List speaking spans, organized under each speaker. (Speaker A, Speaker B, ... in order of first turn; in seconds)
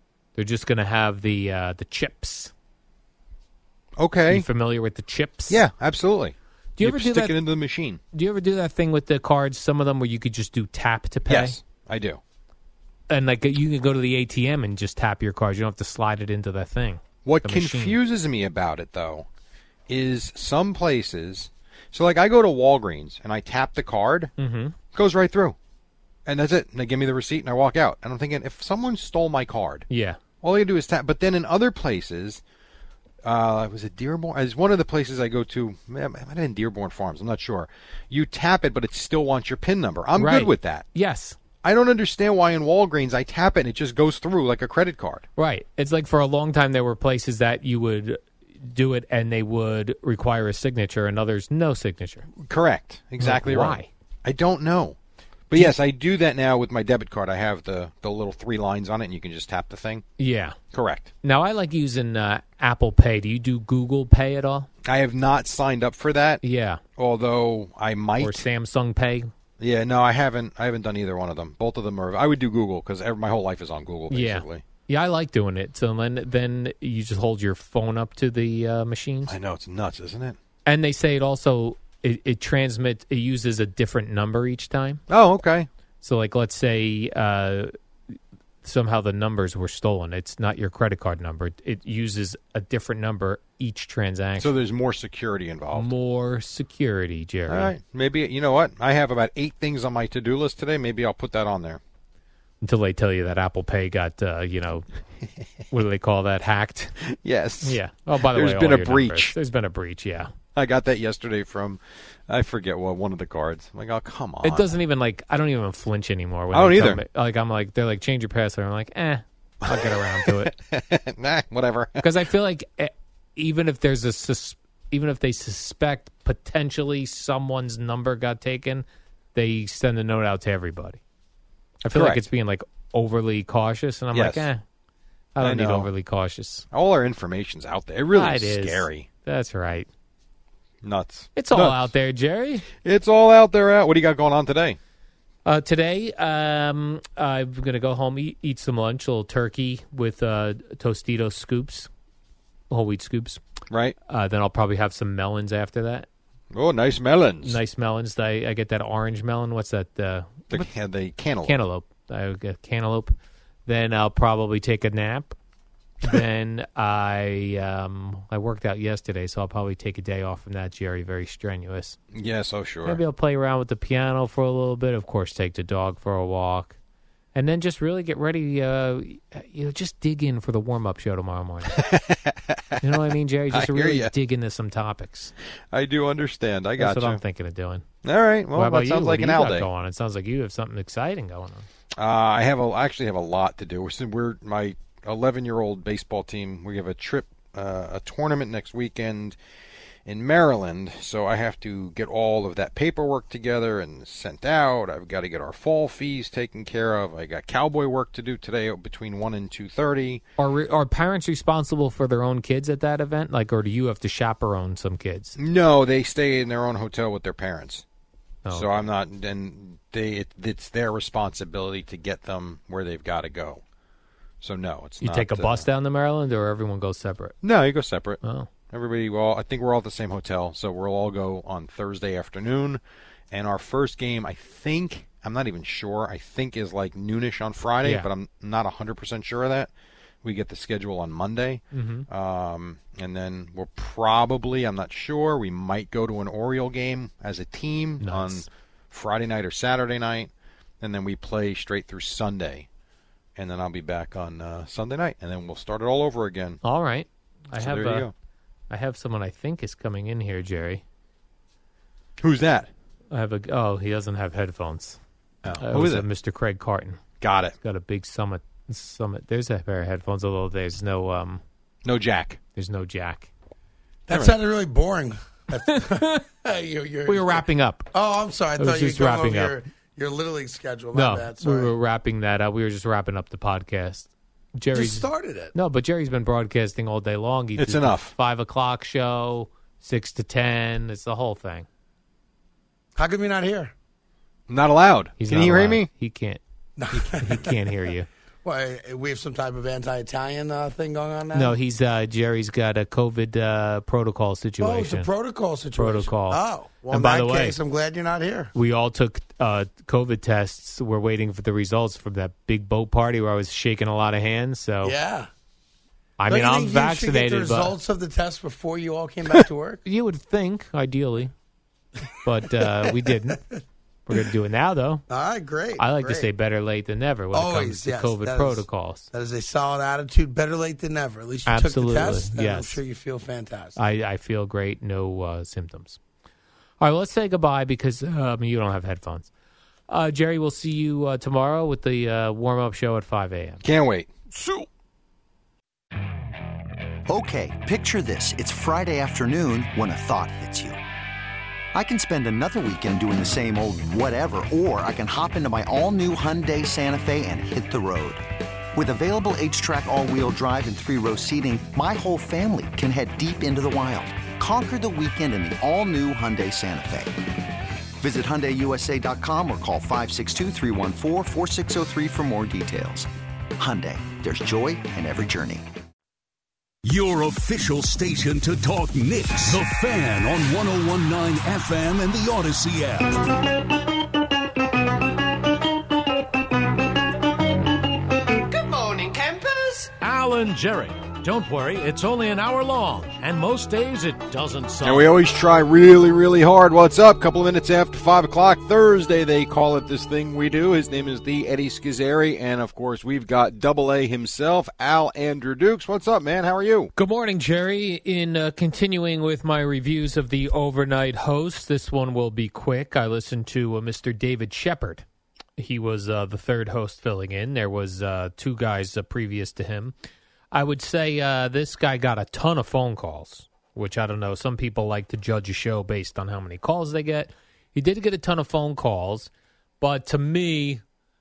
Speaker A: 0.3-2.5, 4.3-5.6, 6.8-7.3, 8.1-11.6, 13.1-18.0, 24.4-24.8, 29.9-30.2, 40.1-41.4, 45.4-52.3, 53.2-53.9, 60.2-60.6, 61.2-64.7, 66.4-66.8, 68.2-69.3, 74.1-79.3, 80.7-85.0, 86.0-87.7, 88.6-94.5, 95.7-97.7, 102.6-104.8, 105.7-106.9, 107.6-110.3, 114.4-120.5, 122.0-131.0, 131.8-134.6, 135.3-136.7, 138.1-139.9, 141.3-142.6, 145.4-151.9, 152.7-153.4, 154.1-156.1, 157.4-160.7, 161.4-163.1, 163.7-165.3, 166.0-172.0, 172.8-176.8, 177.3-181.8, 182.8-185.3, 186.8-187.8, 188.5-191.7, 210.4-215.3, 218.4-218.9, 225.0-227.3, 228.2-228.5, 241.7-242.1, 248.0-248.4, 256.6-258.1, 258.7-260.8, 263.1-265.0, 265.6-267.0, 267.6-271.4, 272.6-273.3, 275.7-276.2, 277.1-277.9, 278.6-279.6, 280.9-291.7, 295.2-296.4, 296.9-298.1, 301.3-305.1, 305.8-307.6, 308.5-314.9, 316.2-317.7, 319.8-321.3, 322.2-323.4, 324.1-325.0, 325.8-329.1, 331.4-332.8, 333.8-336.0, 336.8-339.3, 339.9-343.6, 406.9-415.0, 415.6-419.9, 420.5-429.3, 429.8-430.8
Speaker B: 4.0-4.5, 5.5-8.0, 11.3-12.2, 17.2-19.3, 19.9-24.3, 24.9-25.6, 26.2-29.9, 30.4-32.4, 33.2-40.9, 41.6-45.2, 52.4-55.0, 55.5-60.0, 60.7-61.1, 64.8-66.4, 67.0-68.4, 69.6-74.6, 79.3-80.4, 85.1-85.7, 94.4-95.9, 97.5-101.8, 107.1-107.8, 108.3-109.3, 110.5-114.8, 116.5-117.0, 119.6-122.0, 131.9-132.2, 134.1-134.4, 135.4-135.9, 136.7-139.1, 140.8-141.9, 142.8-144.8, 153.7-153.9, 156.5-157.6, 160.5-161.6, 172.1-173.0, 181.7-182.8, 183.5-184.1, 185.7-187.2, 188.0-189.7, 192.0-199.3, 200.1-210.2, 215.4-217.8, 218.5-223.6, 224.4-225.7, 227.4-232.8, 233.3-239.7, 240.2-252.7, 253.3-256.6, 257.6-258.1, 262.2-262.7, 265.4-266.1, 267.2-267.6, 271.8-272.4, 274.1-274.4, 287.6-288.1, 294.5-295.9, 343.6-344.6, 394.8-406.9
Speaker C: 274.1-277.4, 277.9-281.7, 284.7-285.5, 293.0-293.7, 296.8-297.6, 298.4-301.6, 304.6-308.5, 314.8-315.3, 316.3-319.8, 322.4-323.4, 325.1-326.3, 327.3-333.8
Speaker D: 347.1-350.8, 351.7-358.2, 358.7-367.2, 368.0-375.7
Speaker E: 376.8-383.2
Speaker F: 388.3-395.1